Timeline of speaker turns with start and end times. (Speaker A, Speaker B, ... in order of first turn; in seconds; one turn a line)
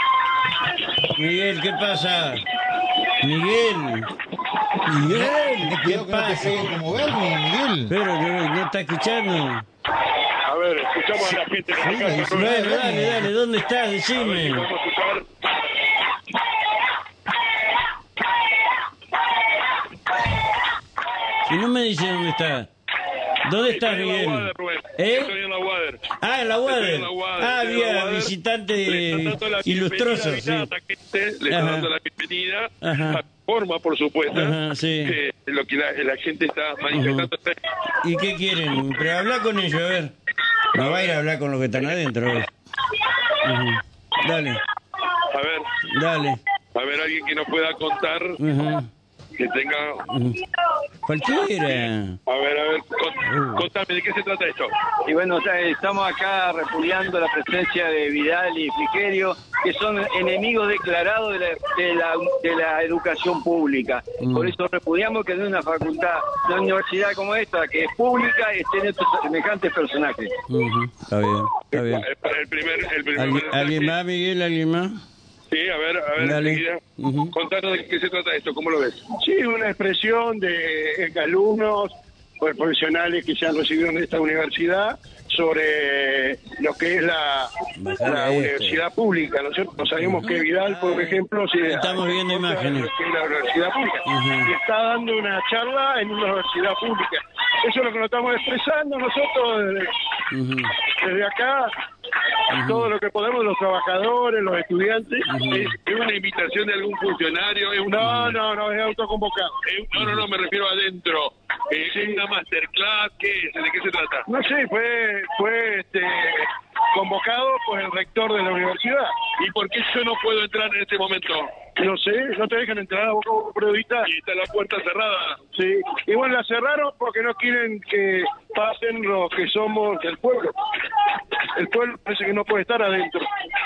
Speaker A: 1.0-2.5
Speaker A: 3.2-4.1
Speaker A: 4.8-6.9
Speaker B: 4.9-7.9
Speaker A: 7.9-9.7
Speaker C: 10.4-12.7
Speaker B: 11.7-13.3
Speaker A: 12.3-14.7
Speaker C: 14.1-15.2
Speaker A: 21.4-22.7
Speaker A: 23.4-25.3
Speaker C: 23.7-26.1
Speaker A: 26.1-30.7
Speaker C: 26.6-37.7
Speaker A: 31.5-31.9
Speaker A: 32.8-33.2
Speaker A: 34.3-35.2
Speaker A: 36.9-37.3
Speaker A: 38.0-40.1
Speaker A: 40.7-42.5
Speaker C: 40.8-41.1
Speaker A: 43.3-44.6
Speaker C: 45.3-45.7
Speaker A: 45.8-46.4
Speaker C: 46.7-48.4
Speaker A: 48.4-48.9
Speaker C: 49.4-50.1
Speaker A: 50.1-50.4
Speaker A: 51.0-52.2
Speaker C: 51.8-54.7
Speaker A: 53.3-53.6
Speaker D: 55.0-70.4
Speaker A: 64.2-64.5
Speaker A: 70.5-72.0
Speaker C: 71.7-73.9
Speaker A: 73.1-75.0
Speaker C: 75.5-76.8
Speaker A: 76.2-77.3
Speaker C: 77.3-79.1
Speaker E: 79.2-87.5
Speaker A: 87.7-88.8
Speaker E: 88.0-99.9
Speaker A: 90.0-92.9
Speaker A: 94.0-94.5
Speaker A: 100.3-100.8
Speaker E: 101.0-101.7
Speaker A: 102.5-102.9
Speaker E: 102.5-105.7
Speaker A: 105.2-105.8
Speaker C: 105.5-108.2
Speaker E: 107.9-109.6
Speaker A: 108.0-108.3
Speaker C: 109.6-114.3
Speaker A: 110.0-110.2
Speaker E: 111.9-112.2
Speaker E: 114.3-119.1
Speaker C: 119.4-121.6
Speaker E: 121.8-124.1
Speaker C: 124.0-125.4
Speaker E: 125.5-130.5
Speaker E: 131.4-133.2